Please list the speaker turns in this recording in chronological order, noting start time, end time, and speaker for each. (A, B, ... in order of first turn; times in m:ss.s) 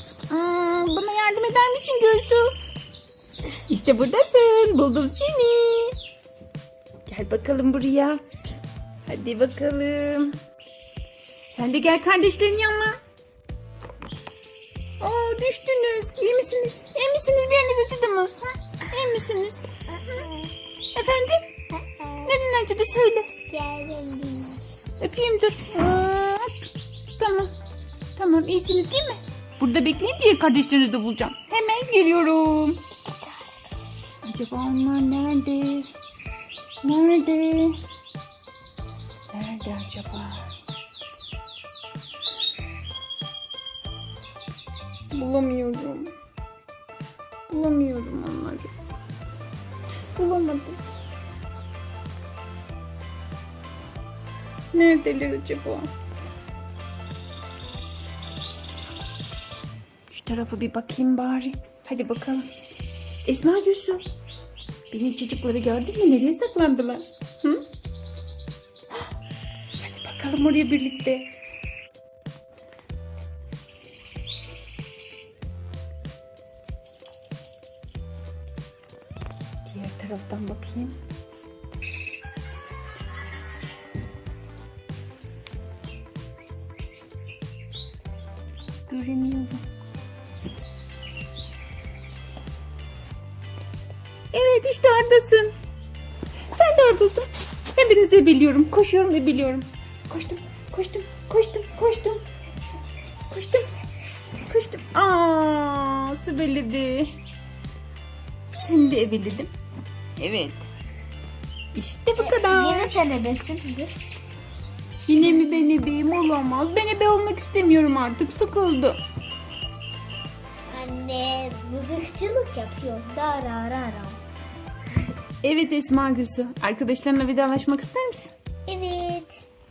0:00.3-0:02.5 A
0:03.6-0:06.0 A
0:07.0-0:08.2 A
0:09.0-0:10.4 A
0:11.5-0:13.0 A
0:15.0-0:20.3 A
0:20.9-0:21.5 A
0:22.2-0:23.3 A
0:23.5-0:24.7 B
0:25.0-0:27.5 A
0:28.1-0:32.8 A
0:34.2-0:35.9 A
0:36.8-0:37.8 A
0:39.3-0:40.5 A
0:45.1-0:46.1 A
0:47.5-0:48.7 A
0:50.1-0:50.8 A
0:54.7-0:55.9 A
1:00.1-1:02.5 A
1:03.2-1:04.0 A
1:04.9-1:07.6 A
1:09.8-1:11.3 A
1:19.6-1:21.0 A
1:28.9-1:29.6 A
1:34.3-1:35.5 A
1:36.5-1:42.2 A
1:43.2-1:43.7 A
1:44.4-1:47.2 A
1:48.5-1:49.5 A
1:50.2-1:50.7 A
1:51.7-1:52.9 A
1:52.2-1:54.2 B
1:55.0-1:59.0 A
2:00.7-2:04.2 B
2:05.4-2:08.3 A
2:08.7-2:09.5 B